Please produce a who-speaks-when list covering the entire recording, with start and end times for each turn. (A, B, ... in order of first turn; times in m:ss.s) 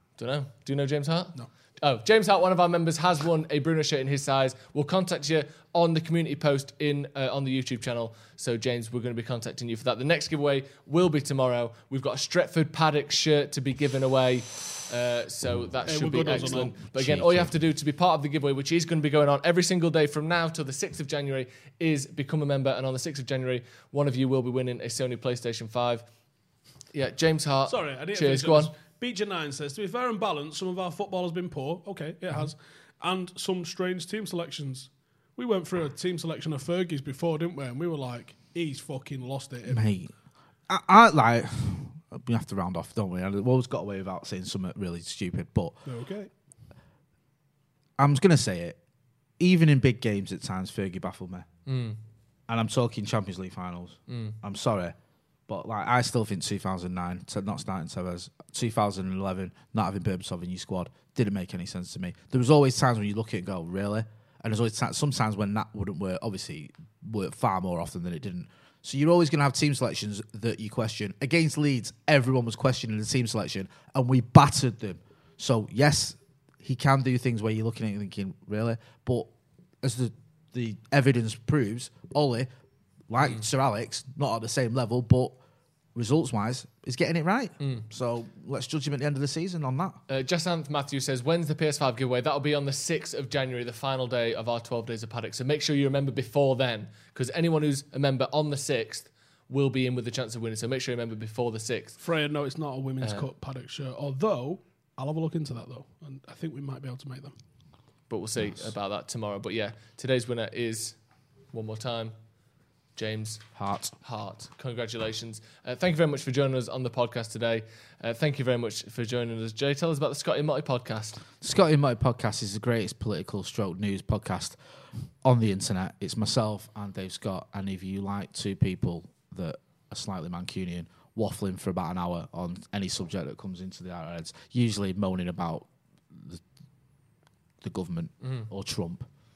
0:00.2-0:26.0 A
0:15.8-0:16.7 B
0:16.9-0:17.5 C
0:26.9-0:28.7 A
0:27.7-0:39.8 B
0:39.7-0:40.1 C
0:40.7-0:45.8 C
0:45.8-0:46.3 B
0:48.0-0:48.8 C
0:49.4-0:51.5 C
0:51.7-0:52.0 A
0:52.5-0:54.9 C
0:54.1-0:54.4 A
0:55.5-1:19.3 C
1:19.8-1:22.5 C
1:23.1-1:25.4 C
1:25.9-1:30.0 C
1:27.6-1:27.8 A
1:30.1-1:42.0 A
1:42.0-1:47.3 B
1:43.0-1:43.3 A
1:48.1-1:51.0 A
1:51.5-1:52.1 A
1:53.0-1:53.4 A
1:53.6-1:53.9 C
1:54.0-2:01.2 A
2:01.4-2:04.6 C
2:05.2-2:16.4 C
2:17.6-2:19.1 C
2:18.2-2:18.5 A